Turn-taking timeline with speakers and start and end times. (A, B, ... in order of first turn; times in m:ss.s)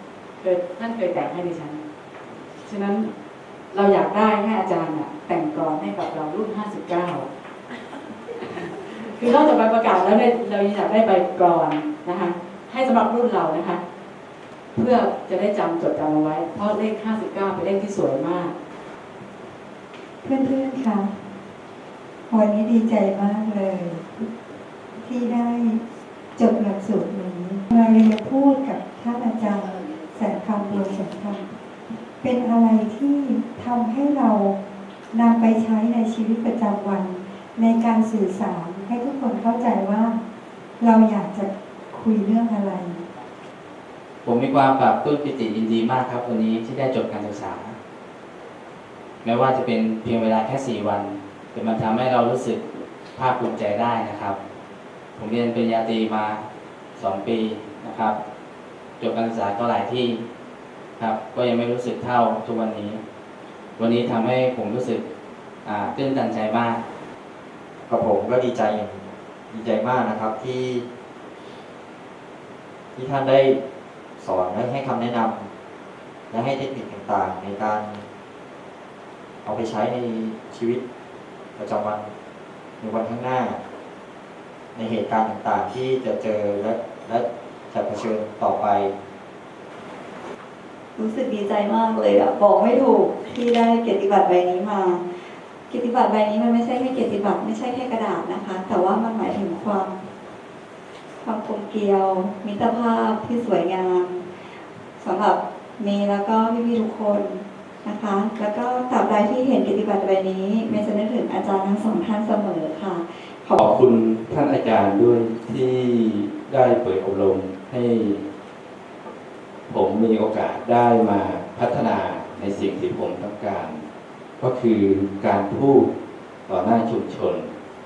0:00.4-0:01.8 A
0:02.6-0:03.1 A
0:03.7-0:07.3 A
0:08.4-0:13.8 A
0:14.7-0:18.5 A
0:20.2-0:21.3 B
0:22.3-0:24.1 B
0:25.0-0:25.8 B
0:26.3-0:31.5 B
0:32.1-0:34.6 B
0:35.1-0:40.2 B
0:40.8-0:43.0 B
0:44.2-0:47.8 C
0:49.2-0:52.6 C
0:53.1-0:54.4 C
0:55.2-0:56.4 C
0:57.0-0:58.2 C
0:59.0-1:00.2 C
1:01.0-1:03.0 C
1:03.8-1:05.0 C
1:05.6-1:06.8 C
1:07.9-1:09.0 D
1:09.5-1:10.8 D
1:13.0-1:13.5 D
1:14.2-1:15.5 D
1:16.3-1:18.0 D
1:19.4-1:20.8 D
1:21.6-1:22.0 D
1:22.8-1:23.6 D
1:24.7-1:28.9 D
1:31.0-1:40.1 E
1:41.2-1:53.6 E
1:53.6-1:58.2 F
1:59.7-2:03.8 F
2:04.4-2:05.9 F
2:06.4-2:07.5 F